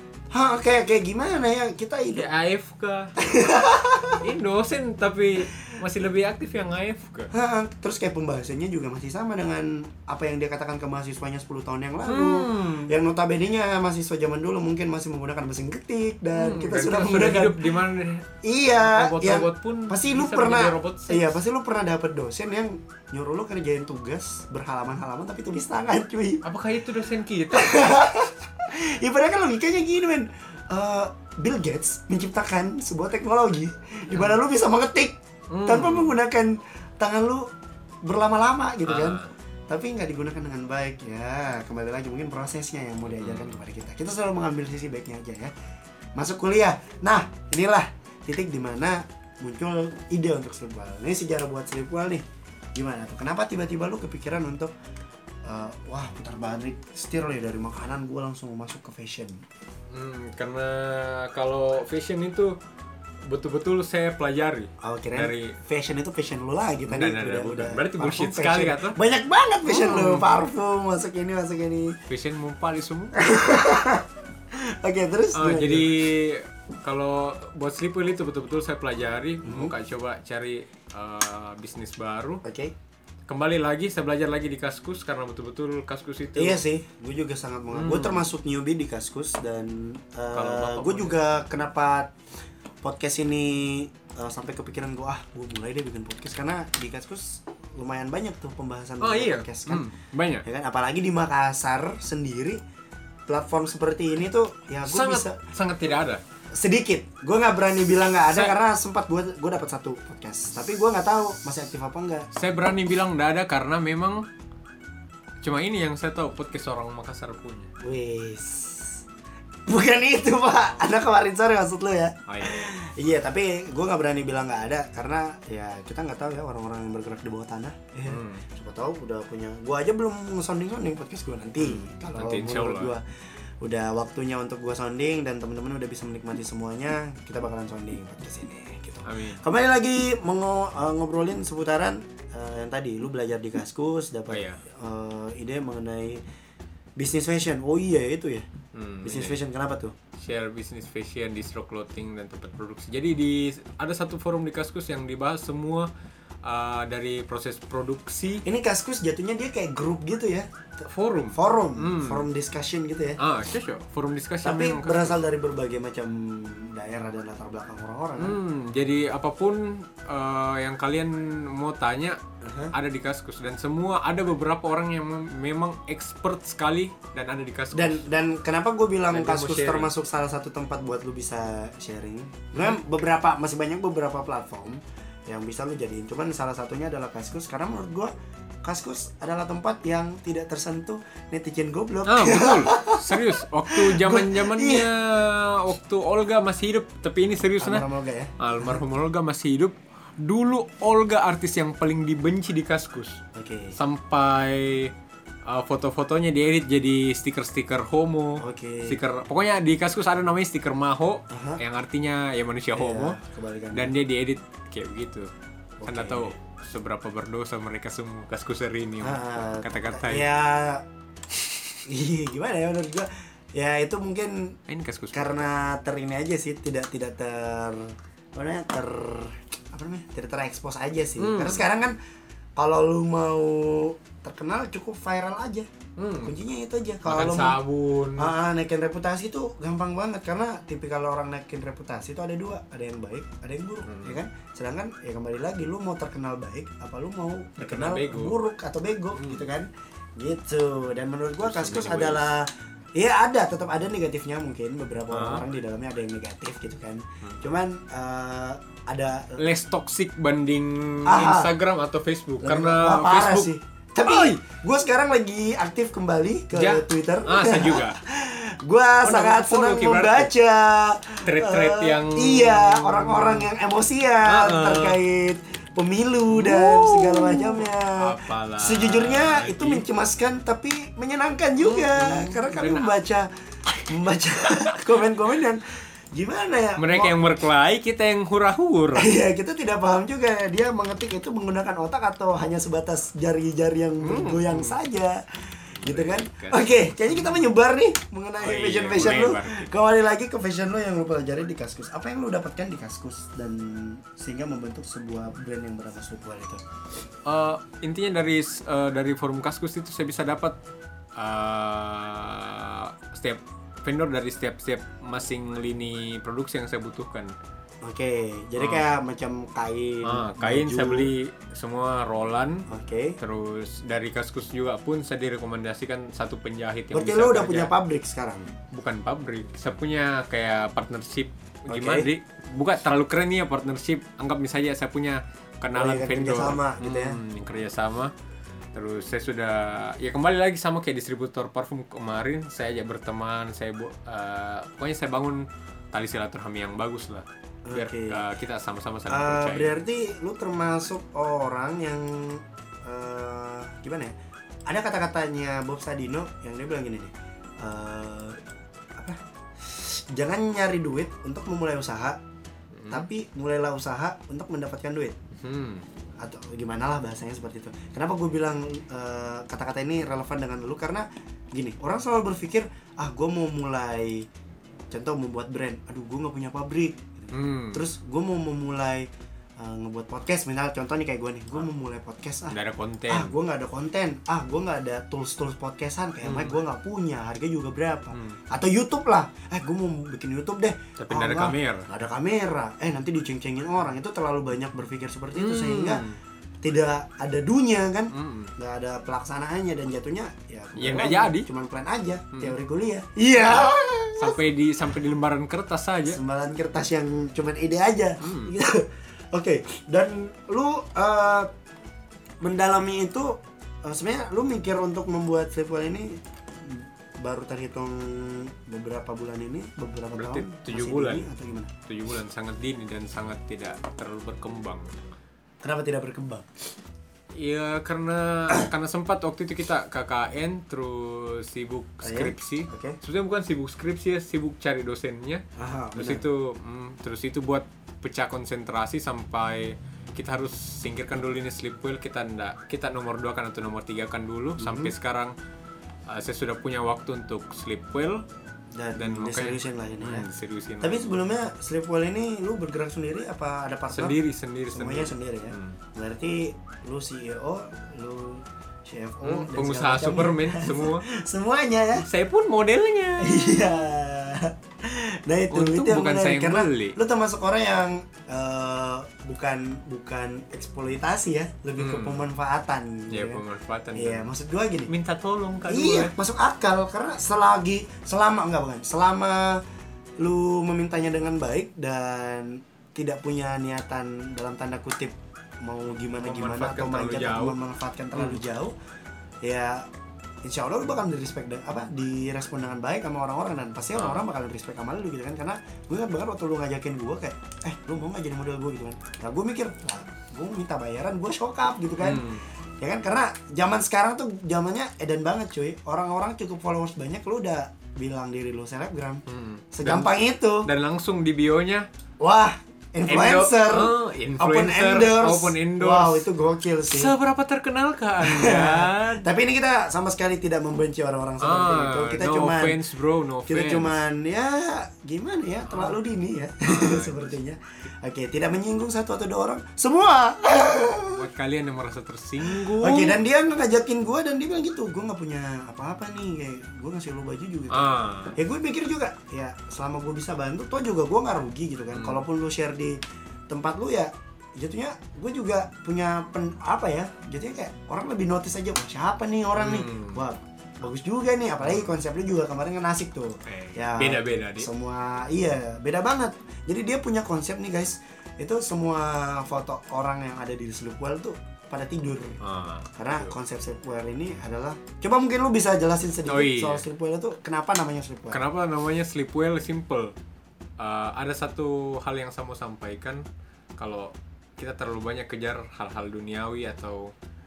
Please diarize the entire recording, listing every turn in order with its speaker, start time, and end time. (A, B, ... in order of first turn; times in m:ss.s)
0:00.3-0:02.3 A
0:02.1-0:03.1 B
0:03.2-0:04.2 A
0:04.2-0:07.3 B
0:07.3-0:17.8 A
0:12.0-0:12.9 B
0:16.3-0:21.4 B
0:18.4-0:26.4 A
0:26.4-0:27.9 B
0:27.5-0:37.5 A
0:34.1-0:34.4 B
0:35.5-0:36.2 B
0:38.0-0:45.5 A
0:38.9-0:39.3 B
0:43.1-0:43.6 B
0:46.2-0:54.7 A
0:55.4-0:59.4 A
0:59.9-1:02.6 B
1:03.2-1:05.6 B
1:04.8-1:12.0 A
1:06.9-1:09.0 B
1:09.6-1:10.3 B
1:12.1-1:13.2 B
1:13.2-1:16.0 A
1:15.3-1:22.4 B
1:19.4-1:19.7 A
1:22.4-1:22.7 A
1:23.3-1:26.6 B
1:26.3-1:32.1 A
1:27.7-1:28.2 B
1:30.3-1:31.2 B
1:32.8-1:39.8 A
1:39.0-1:40.4 B
1:40.4-1:42.6 A
1:43.3-1:45.4 A
1:44.8-1:46.2 B
1:46.5-1:52.3 A
1:48.3-1:48.5 B
1:52.3-1:54.3 B
1:55.4-1:57.7 B
1:57.8-1:59.0 A
1:59.6-2:13.0 A
2:02.3-2:02.7 B
2:08.1-2:08.4 B
2:11.6-2:12.9 B
2:13.6-2:26.2 A
2:19.0-2:19.4 B
2:24.3-2:24.6 B
2:27.0-2:28.5 A
2:28.7-2:29.4 B
2:29.0-2:29.9 A
2:30.2-2:35.9 B
2:36.4-2:38.4 B
2:38.4-2:40.5 A
2:40.8-2:42.2 B
2:41.3-2:43.2 A
2:43.2-2:45.2 B
2:44.4-2:48.4 A
2:48.2-2:52.2 B
2:52.4-2:52.7 A
2:52.7-2:58.0 B
2:57.7-3:08.1 A
2:59.1-2:59.9 B
3:08.6-3:14.9 A
3:12.0-3:17.8 B
3:17.6-3:18.8 A
3:18.4-3:23.2 B
3:23.3-3:23.8 A
3:23.7-3:24.9 B
3:25.4-3:33.2 B
3:28.4-3:29.0 A
3:31.3-3:31.6 A
3:32.7-3:33.9 A
3:33.7-3:35.3 B
3:35.8-3:36.3 A
3:35.8-3:40.2 B
3:39.0-3:40.8 A
3:41.8-3:44.6 A
3:44.7-3:45.5 B
3:45.1-3:52.0 A
3:51.2-3:51.6 B
3:52.6-3:55.7 A
3:56.0-3:56.3 B
3:56.2-3:57.6 A
3:57.0-3:58.3 B
3:58.2-4:19.4 A
4:03.8-4:04.2 B
4:07.6-4:08.4 B
4:09.1-4:09.4 B
4:11.4-4:12.2 B
4:15.1-4:15.4 B
4:19.4-4:23.5 B
4:21.0-4:21.5 A
4:22.4-4:43.3 A
4:24.0-4:24.4 B
4:26.5-4:28.0 B
4:29.0-4:30.3 B
4:31.2-4:33.5 B
4:34.2-4:35.0 B
4:36.3-4:39.8 B
4:41.6-4:43.0 B
4:43.9-4:47.3 A
4:44.4-4:44.8 B
4:46.8-4:49.1 B
4:48.9-5:06.6 A
4:54.0-4:54.8 B
4:55.8-4:57.3 B
4:58.4-4:59.6 B
5:07.2-5:10.6 B
5:11.2-5:17.3 B
5:17.8-5:21.1 A
5:18.6-5:18.8 B
5:20.0-5:22.7 B
5:22.7-5:23.2 A
5:23.2-5:27.7 B
5:26.9-5:28.5 A
5:28.7-5:38.1 B
5:31.7-5:32.1 A
5:35.7-5:37.2 A
5:38.7-5:49.8 B
5:47.6-5:48.2 A
5:49.1-5:54.1 A
5:54.6-5:58.4 A
5:59.0-6:02.2 A
6:02.7-6:03.1 B
6:02.9-6:05.2 A
6:05.4-6:05.8 B
6:06.2-6:14.3 A
6:14.9-6:22.6 A
6:17.3-6:17.8 B
6:22.5-6:23.3 B
6:23.1-6:36.0 A
6:26.2-6:26.6 B
6:28.1-6:28.4 B
6:31.0-6:31.9 B
6:35.3-6:36.2 B
6:36.6-6:44.4 A
6:38.1-6:38.5 B
6:40.8-6:41.5 B
6:43.4-6:46.2 B
6:46.0-6:51.5 A
6:48.2-6:48.5 B
6:52.4-7:01.7 A
7:00.1-7:01.3 B
7:01.8-7:04.9 B
7:05.6-7:06.5 A
7:07.3-7:15.4 B
7:12.0-7:13.0 A
7:15.6-7:16.2 A
7:16.0-7:25.3 B
7:24.6-7:24.9 A
7:26.1-7:28.2 B
7:28.7-7:34.2 A
7:29.0-7:31.1 B
7:33.9-7:35.8 B
7:34.7-7:42.0 A
7:39.2-7:41.1 B
7:42.0-7:43.5 B
7:43.2-7:53.4 A
7:45.5-7:47.0 B
7:51.8-7:52.3 B
7:53.1-7:54.3 B
7:53.9-7:54.9 A
7:54.9-7:56.1 B
7:55.7-7:59.6 A
8:00.2-8:08.7 A
8:06.2-8:07.6 B
8:08.1-8:08.5 B
8:09.4-8:09.9 A
8:10.4-8:30.7 A
8:14.0-8:14.2 B
8:22.0-8:22.4 B
8:29.3-8:31.8 B
8:32.2-8:37.1 A
8:33.1-8:36.3 B
8:36.9-8:39.2 B
8:38.2-8:42.8 A
8:41.4-8:44.0 B
8:43.5-8:51.2 A
8:45.7-8:46.0 B
8:46.6-8:47.4 B
8:51.1-8:53.2 B
8:52.4-9:22.4 A
8:57.7-8:58.4 B
9:01.9-9:02.2 B
9:09.6-9:10.2 B
9:11.6-9:11.9 B
9:13.4-9:14.7 B
9:22.4-9:23.3 B
9:22.9-9:28.4 A
9:26.3-9:26.8 B
9:28.3-9:30.1 B
9:30.8-9:33.2 B
9:33.8-9:37.1 B